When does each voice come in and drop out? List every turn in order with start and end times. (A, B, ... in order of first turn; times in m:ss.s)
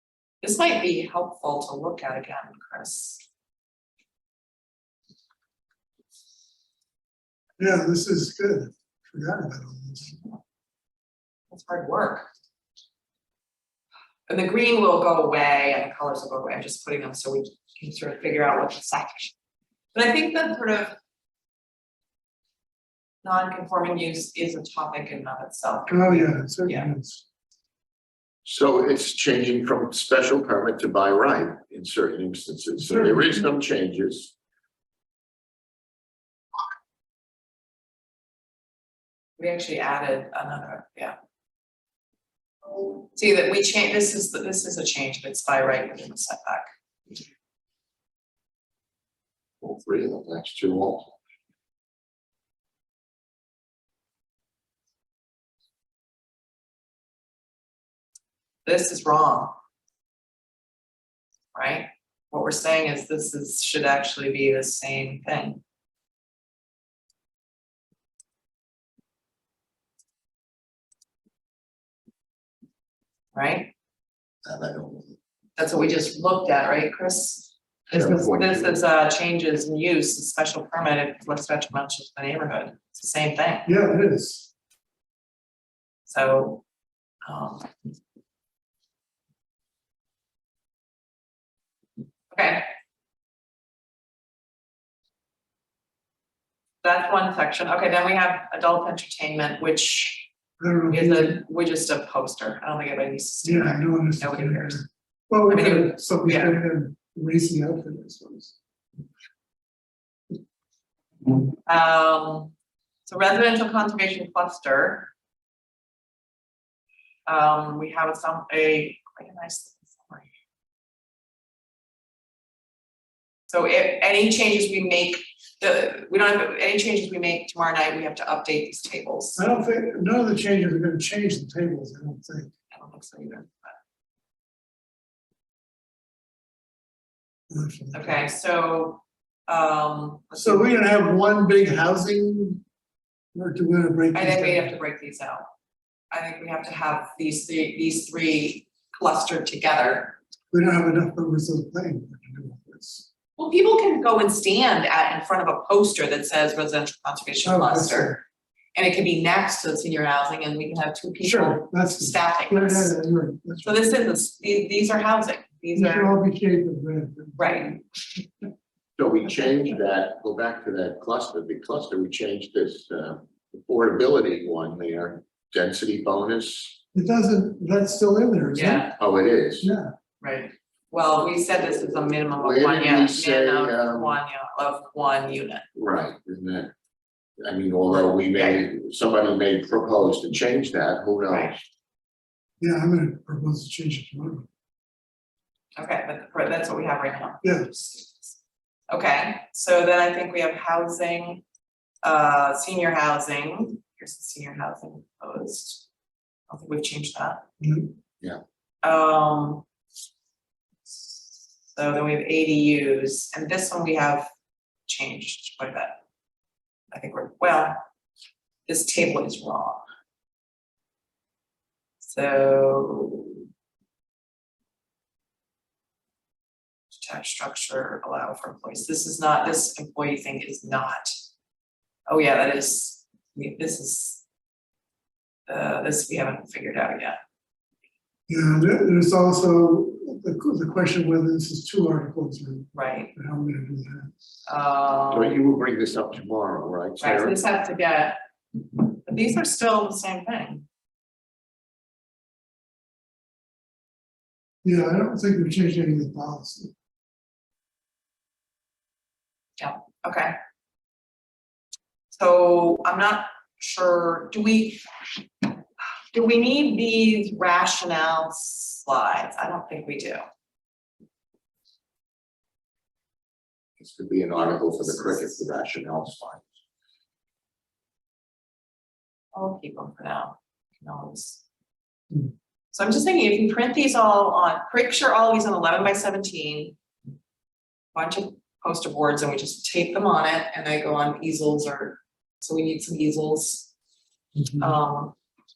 0:00.4-0:03.2 A
0:07.6-0:10.2 B
0:11.5-0:12.3 A
0:14.3-0:19.3 A
0:19.9-0:21.0 A
0:23.2-0:26.9 A
0:25.9-0:27.2 B
0:28.4-0:34.3 C
0:32.9-0:33.4 B
0:39.4-0:41.2 A
0:43.0-0:46.7 A
0:49.6-0:51.1 C
0:58.6-0:59.5 A
1:01.5-1:05.6 A
1:13.3-1:13.7 A
1:14.4-1:15.2 C
1:15.6-1:23.7 A
1:17.9-1:18.8 C
1:23.7-1:24.5 B
1:26.1-1:26.6 A
1:27.2-1:27.7 A
1:32.3-1:32.7 A
1:36.8-1:40.3 A
1:40.6-1:41.4 B
1:40.9-1:44.8 A
1:43.4-1:48.6 B
1:45.5-1:46.6 A
1:51.6-1:52.5 A
1:53.1-1:55.1 A
1:57.3-2:00.3 A
2:03.5-2:09.4 A
2:09.4-2:12.5 B
2:12.7-2:13.8 A
2:17.5-2:18.3 B
2:17.9-2:20.7 A
2:20.4-2:22.6 B
2:23.3-2:24.7 B
2:24.1-2:25.5 A
2:26.1-2:30.2 A
2:30.5-2:33.1 B
2:33.4-2:38.2 A
2:37.4-2:38.2 B
2:38.7-2:43.0 A
2:41.2-2:43.9 B
2:43.6-2:46.1 A
2:45.8-2:47.8 B
2:47.4-2:47.8 A
2:49.0-2:56.8 C
2:56.9-2:58.9 B
2:58.5-2:59.0 A
2:59.0-2:59.7 C
2:59.6-2:59.9 B
3:00.2-3:05.7 A
3:02.1-3:04.2 C
3:05.8-3:06.7 C
3:07.4-3:11.6 C
3:08.3-3:08.6 A
3:11.3-3:11.6 A
3:12.6-3:14.5 B
3:15.8-3:18.3 A
3:17.4-3:17.7 B
3:18.9-3:21.4 A
3:22.0-3:25.9 A
3:26.5-3:27.4 A
3:27.6-3:27.9 B
3:28.8-3:29.6 A
3:31.1-3:34.3 A
3:34.9-3:36.0 A
3:36.9-3:37.8 A
3:38.7-3:39.8 A
3:42.0-3:43.4 A
3:46.9-3:51.2 A
3:52.1-3:54.2 A
3:55.5-3:57.2 A
3:58.3-4:04.1 B
4:02.7-4:03.1 A
4:04.5-4:05.4 A
4:05.1-4:07.4 C
4:07.0-4:08.2 A
4:08.7-4:10.7 A
4:14.6-4:16.7 B
4:19.6-4:20.4 A
4:22.1-4:24.9 A
4:26.1-4:30.2 A
4:33.8-4:36.4 C
4:39.3-4:41.4 A
4:42.7-4:46.8 A
4:47.9-4:53.7 A
4:54.4-4:54.7 B
4:54.6-4:55.2 A